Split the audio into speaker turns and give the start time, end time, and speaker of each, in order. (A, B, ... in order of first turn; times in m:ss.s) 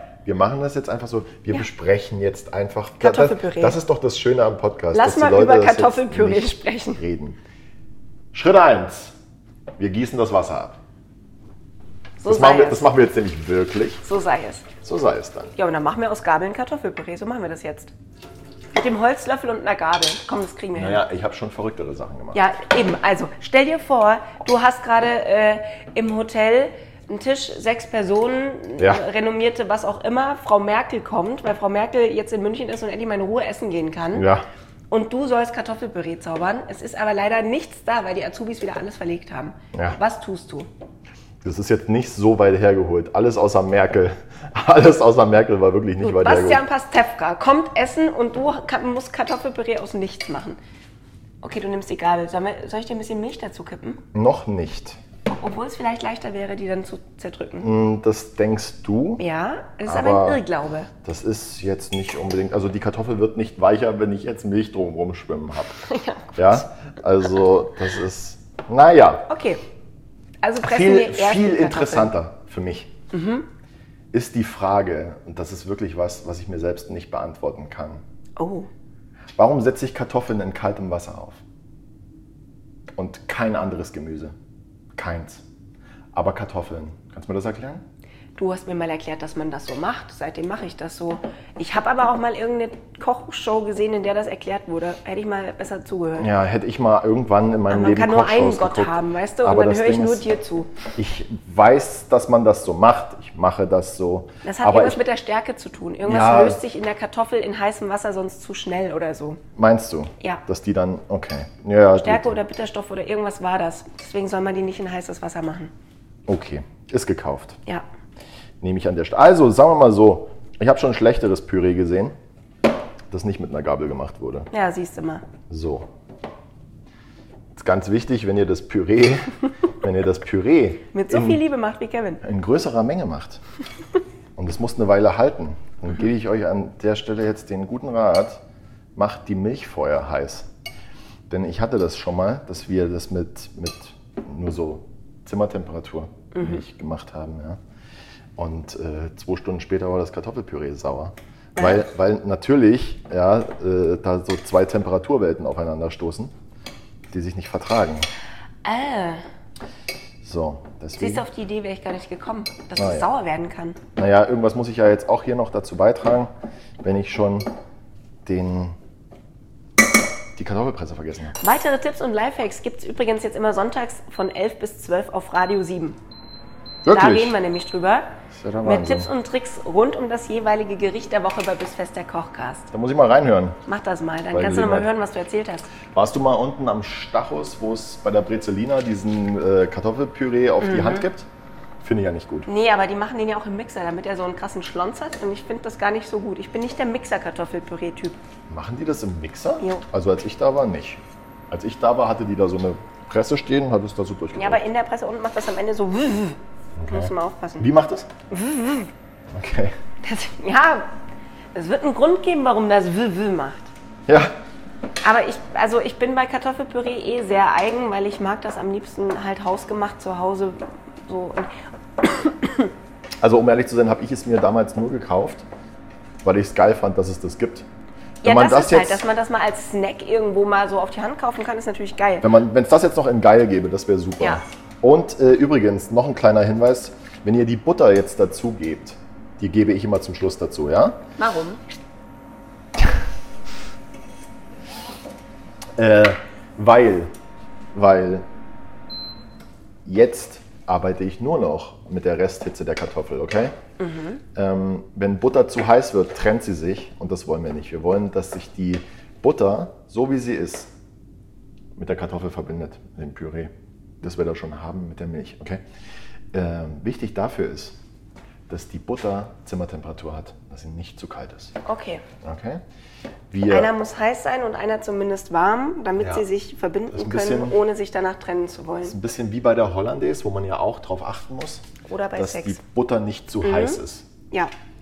0:00.2-0:07.4 A
0:03.0-0:03.8 B
0:04.9-0:07.0 B
0:08.3-0:09.1 A
0:09.8-0:10.8 A
0:12.2-0:12.9 B
0:12.2-0:14.0 A
0:14.0-0:14.6 B
0:14.8-0:15.5 A
0:15.6-0:17.9 B
0:18.8-0:21.0 B
0:20.8-0:22.4 A
0:22.3-0:34.3 B
0:34.1-0:34.4 A
0:34.9-0:40.7 B
0:39.7-0:40.0 A
0:41.4-0:46.6 A
0:46.0-0:50.6 B
0:51.4-0:54.0 B
0:54.1-0:55.0 A
0:55.3-0:57.7 B
0:57.6-0:59.2 A
0:59.2-1:00.9 B
0:59.9-1:00.4 A
1:01.0-1:05.8 A
1:05.9-1:06.6 B
1:06.4-1:09.3 A
1:09.3-1:09.6 B
1:10.4-1:12.1 B
1:10.6-1:12.9 A
1:13.1-1:13.5 B
1:14.1-1:18.0 A
1:18.4-1:18.7 B
1:19.4-1:21.4 A
1:23.0-1:24.4 A
1:25.0-1:25.4 A
1:26.1-1:27.8 A
1:28.4-1:36.3 B
1:36.2-1:40.2 A
1:37.7-1:40.7 B
1:41.0-1:45.0 A
1:44.4-1:49.4 B
1:46.0-1:46.6 A
1:49.6-1:52.4 A
1:52.0-1:55.7 B
1:56.3-1:57.6 A
1:58.6-2:02.1 A
2:03.1-2:04.5 A
2:04.5-2:05.2 B
2:05.5-2:05.9 A
2:07.6-2:11.4 A
2:10.9-2:12.2 B
2:12.2-2:13.4 A
2:14.4-2:18.4 A
2:19.0-2:20.5 A
2:21.3-2:27.6 A
2:26.3-2:26.6 B
2:28.4-2:36.3 A
2:31.6-2:31.8 B
2:37.1-2:38.1 A
2:38.6-2:39.2 B
2:40.2-2:41.2 A
2:41.0-2:43.8 B
2:42.8-2:43.1 A
2:44.0-2:46.3 A
2:46.8-2:47.5 A
2:48.2-2:48.8 A
2:50.4-2:51.3 A
2:51.4-2:56.0 B
2:56.8-2:57.4 A
2:56.9-2:58.1 B
2:58.3-2:59.1 A
2:58.6-3:02.7 B
3:02.7-3:03.6 A
3:03.7-3:05.7 B
3:04.3-3:04.9 A
3:05.9-3:11.3 A
3:10.6-3:11.1 B
3:11.8-3:12.5 A
3:12.5-3:18.2 B
3:18.5-3:24.6 A
3:24.3-3:27.7 B
3:26.8-3:28.1 A
3:28.3-3:28.9 B
3:29.3-3:29.8 A
3:30.0-3:30.9 B
3:31.5-3:33.7 B
3:34.1-3:34.3 A
3:35.0-3:41.5 B
3:42.0-3:42.7 B
3:43.2-3:45.5 A
3:46.2-3:47.7 A
3:48.2-3:52.3 B
3:48.2-3:49.0 A
3:52.2-4:01.0 A
4:01.2-4:01.6 B
4:05.8-4:07.1 A
4:07.7-4:08.2 A
4:09.8-4:13.5 A
4:13.8-4:14.2 B
4:14.3-4:20.7 A
4:21.8-4:23.5 A
4:24.0-4:25.6 A
4:26.3-4:27.8 A
4:28.5-4:31.5 A
4:31.6-4:32.0 B
4:32.2-4:32.6 A
4:33.3-4:33.7 A
4:33.5-4:39.0 B
4:36.9-4:37.6 A
4:38.8-4:41.7 A
4:41.9-4:42.6 B
4:42.2-4:44.1 A
4:43.4-4:43.8 B